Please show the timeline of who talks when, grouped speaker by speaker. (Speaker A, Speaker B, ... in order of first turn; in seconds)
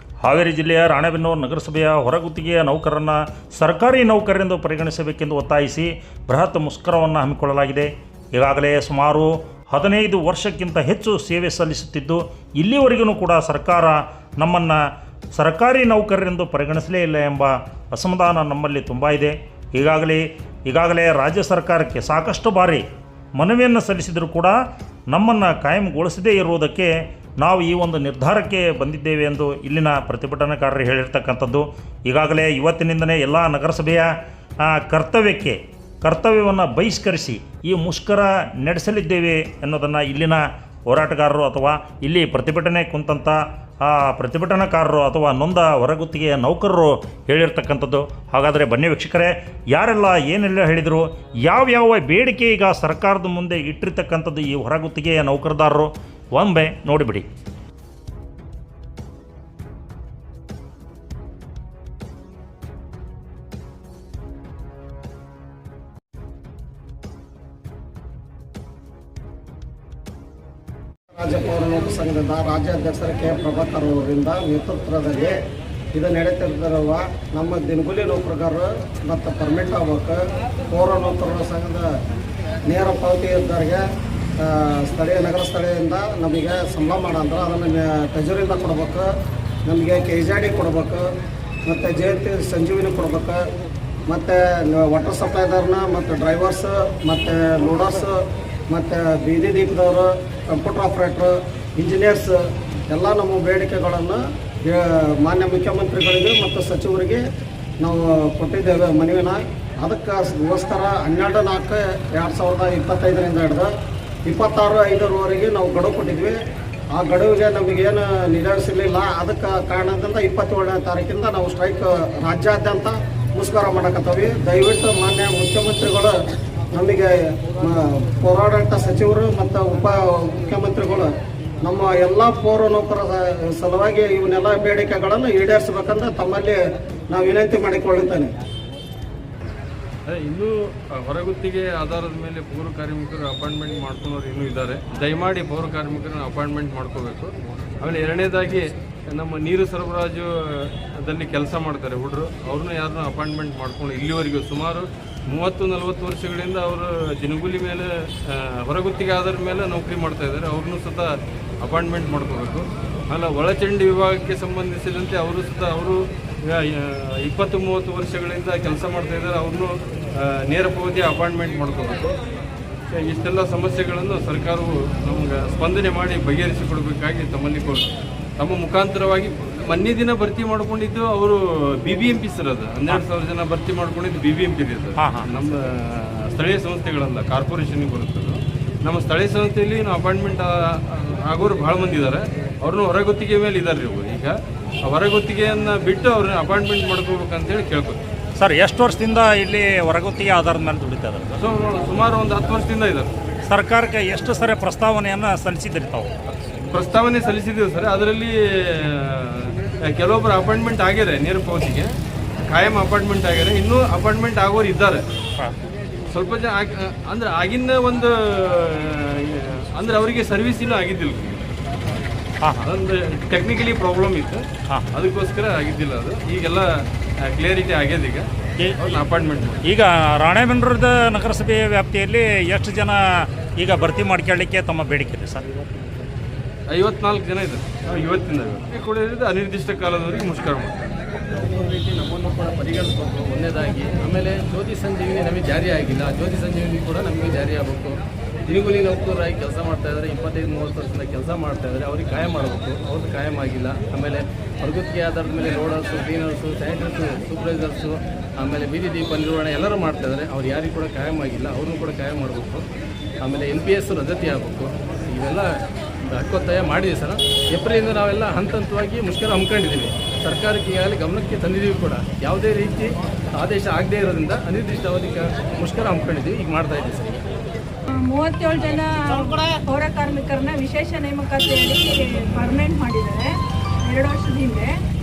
Speaker A: 0.2-14.8, 15.3-24.6, 25.1-34.1, 34.6-57.3, 185.0-185.3, 198.4-201.4, 203.5-206.1, 229.6-233.0, 233.6-235.4
Speaker B: 71.1-75.4, 75.9-81.9, 82.7-83.8, 84.4-89.1, 89.7-91.1, 91.7-93.4, 94.1-98.2, 98.7-102.4, 102.9-107.2, 107.8-113.7, 114.3-116.4, 116.9-126.1, 126.7-131.1, 131.6-136.6, 137.1-138.3
Speaker C: 140.1-172.2, 172.9-177.9, 178.4-198.0, 201.4-203.1, 206.7-211.9, 212.5-215.0, 216.1-221.4, 222.6-226.7, 227.2-228.3, 228.8-229.6, 236.7-240.9
Speaker D: 241.3-262.7, 263.2-265.5, 266.1-277.2
Speaker E: 277.9-283.3, 283.9-284.7